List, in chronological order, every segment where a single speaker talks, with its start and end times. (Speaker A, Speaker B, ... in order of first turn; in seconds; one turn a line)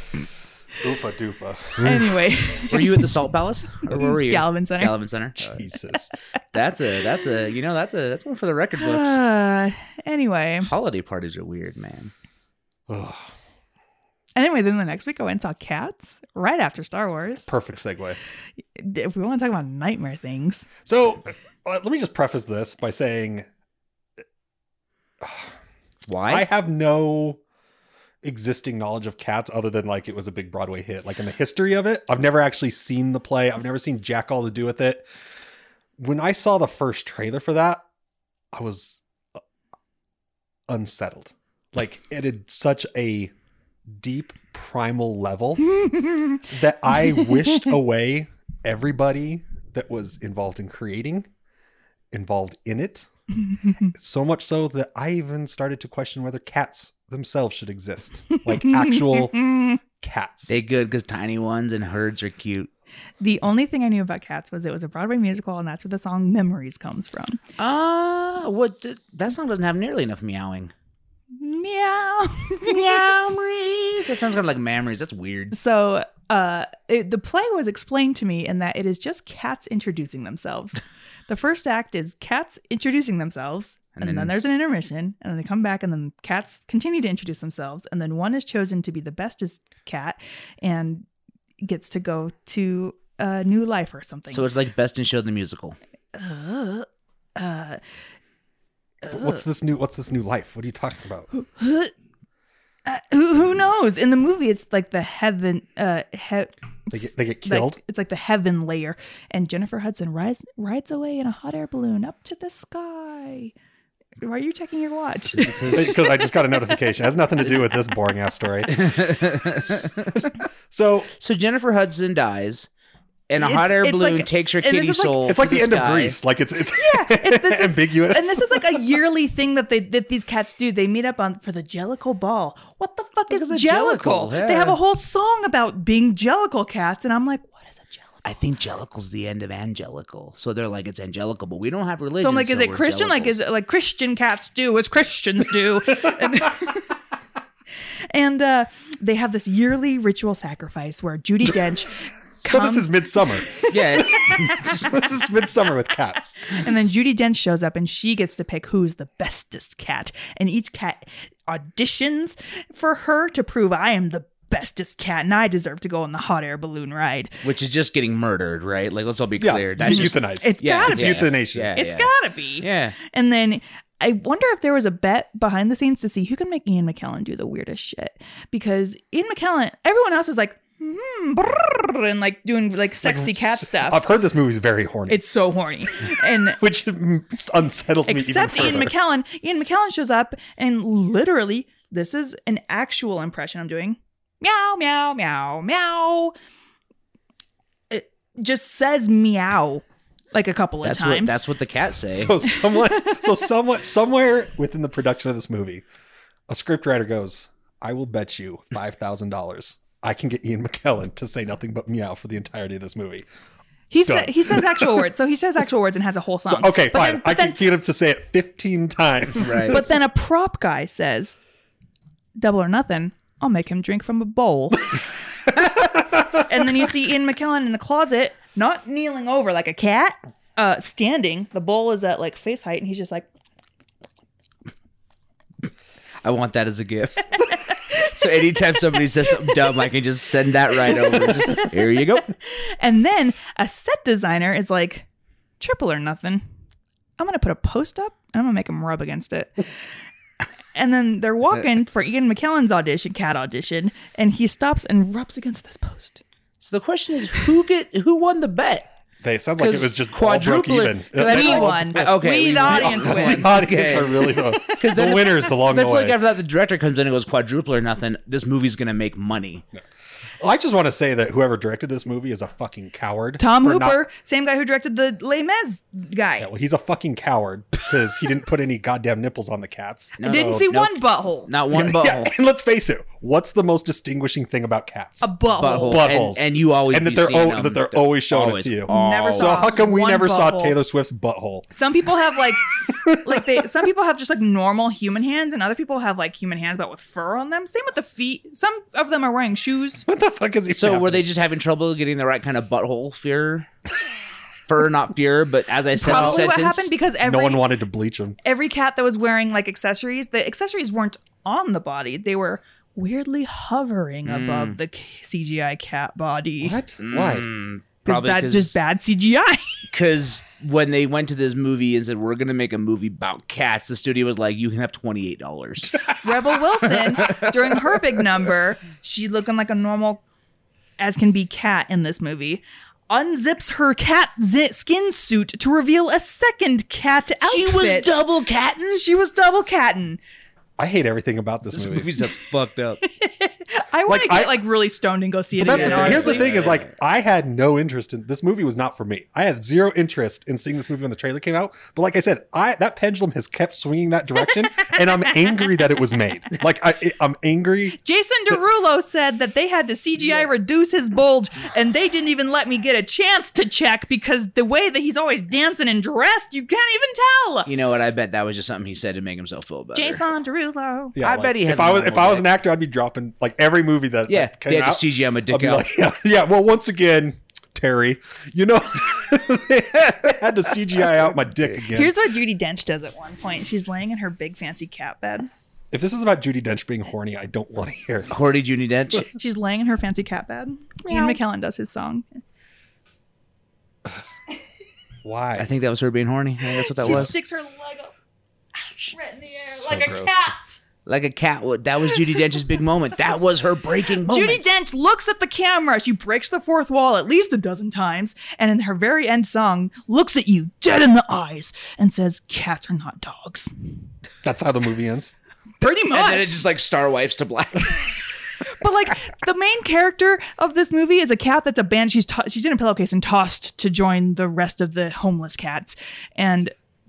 Speaker A: 0.8-2.0
Speaker B: 1.8-3.1
Speaker C: 2.7-5.6
Speaker B: 3.9-5.0
Speaker A: 5.4-6.1
Speaker C: 6.5-9.2
Speaker B: 8.8-10.7
Speaker C: 10.7-12.1
Speaker A: 12.9-13.3
Speaker B: 14.4-17.5
Speaker A: 17.5-18.2
Speaker B: 18.8-20.7
Speaker A: 20.9-23.5
Speaker A: 25.2-25.5
Speaker C: 26.1-26.5
Speaker A: 26.3-27.4
Speaker A: 28.2-35.1
Speaker A: 36.0-37.8
Speaker A: 38.5-39.0
Speaker A: 40.7-43.3
Speaker A: 43.9-45.8
Speaker B: 45.7-47.7
Speaker A: 46.5-51.3
Speaker A: 52.1-53.1
Speaker B: 53.5-53.9
Speaker A: 53.8-60.5
Speaker B: 58.4-59.8
Speaker C: 60.5-62.7
Speaker B: 63.2-67.4
Speaker C: 67.6-70.7
Speaker B: 71.3-73.3
Speaker C: 72.6-75.6
Speaker B: 75.5-91.1
Speaker C: 84.0-84.3
Speaker B: 91.6-94.5
Speaker C: 94.3-95.8
Speaker B: 96.2-97.8
Speaker B: 99.0-99.4
Speaker A: 99.1-101.3
Speaker B: 101.3-101.9
Speaker B: 102.9-113.5
Speaker A: 106.9-107.8
Speaker B: 114.2-116.8
Speaker C: 115.4-115.8
Speaker A: 115.7-119.1
Speaker C: 118.7-120.3
Speaker A: 120.1-121.1
Speaker C: 121.2-122.7
Speaker C: 123.3-126.2
Speaker B: 123.4-125.2
Speaker A: 125.2-128.8
Speaker B: 126.8-138.3
Speaker C: 133.3-134.8
Speaker C: 138.2-143.4
Speaker B: 142.2-146.9
Speaker B: 148.1-154.9
Speaker A: 152.4-156.5
Speaker C: 153.7-155.1
Speaker B: 156.5-167.4
Speaker C: 167.4-173.0
Speaker A: 169.4-171.7
Speaker B: 169.8-184.0
Speaker A: 183.0-185.2
Speaker B: 185.1-186.6
Speaker A: 186.5-188.9
Speaker B: 188.1-196.3
Speaker B: 197.9-201.5
Speaker C: 200.8-202.4
Speaker A: 202.1-205.8
Speaker B: 202.5-203.3
Speaker A: 206.5-213.2
Speaker B: 213.9-217.6
Speaker A: 214.1-215.1
Speaker A: 216.4-219.9
Speaker C: 219.4-219.8
Speaker B: 219.7-221.4
Speaker B: 222.4-225.0
Speaker A: 225.8-226.4
Speaker B: 226.3-233.3
Speaker C: 236.2-242.3
Speaker B: 237.9-239.7
Speaker B: 240.8-245.1
Speaker B: 245.6-246.4
Speaker B: 247.2-249.6
Speaker B: 250.7-256.2
Speaker C: 256.6-258.9
Speaker A: 259.2-266.2
Speaker C: 259.6-269.6
Speaker B: 261.2-265.2
Speaker A: 270.4-274.0
Speaker B: 273.4-276.5
Speaker A: 276.4-280.6
Speaker C: 280.2-282.3
Speaker B: 280.2-281.5
Speaker A: 281.7-291.7
Speaker B: 285.2-286.1
Speaker C: 285.6-289.8
Speaker B: 288.9-290.8
Speaker B: 291.7-300.1
Speaker A: 292.9-293.5
Speaker A: 300.1-301.2
Speaker C: 300.7-303.7
Speaker C: 304.7-306.9
Speaker B: 306.0-307.7
Speaker A: 306.0-306.5
Speaker A: 307.2-308.4
Speaker B: 308.4-316.8
Speaker C: 314.2-314.8
Speaker A: 316.6-317.5
Speaker C: 317.0-318.8
Speaker B: 318.1-319.9
Speaker C: 319.9-326.2
Speaker B: 326.2-330.2
Speaker C: 327.0-327.5
Speaker B: 331.0-338.1
Speaker C: 337.4-339.0
Speaker B: 338.9-340.2
Speaker A: 340.8-342.1
Speaker C: 341.7-343.0
Speaker B: 343.0-346.5
Speaker A: 344.1-344.6
Speaker A: 345.6-358.0
Speaker C: 345.6-346.9
Speaker B: 354.8-355.5
Speaker B: 358.0-367.7
Speaker C: 367.6-370.2
Speaker B: 369.9-371.1
Speaker A: 371.1-382.1
Speaker C: 371.2-372.5
Speaker C: 374.3-375.9
Speaker B: 381.9-385.5
Speaker A: 385.9-388.4
Speaker C: 388.3-389.3
Speaker B: 389.3-392.4
Speaker C: 391.1-391.4
Speaker A: 395.2-395.7
Speaker C: 395.6-397.3
Speaker B: 396.9-398.1
Speaker A: 397.0-397.3
Speaker B: 398.8-400.8
Speaker A: 399.8-400.3
Speaker C: 401.1-404.7
Speaker B: 404.2-413.7
Speaker A: 414.4-415.3
Speaker B: 415.8-416.6
Speaker C: 416.1-418.2
Speaker B: 418.6-426.7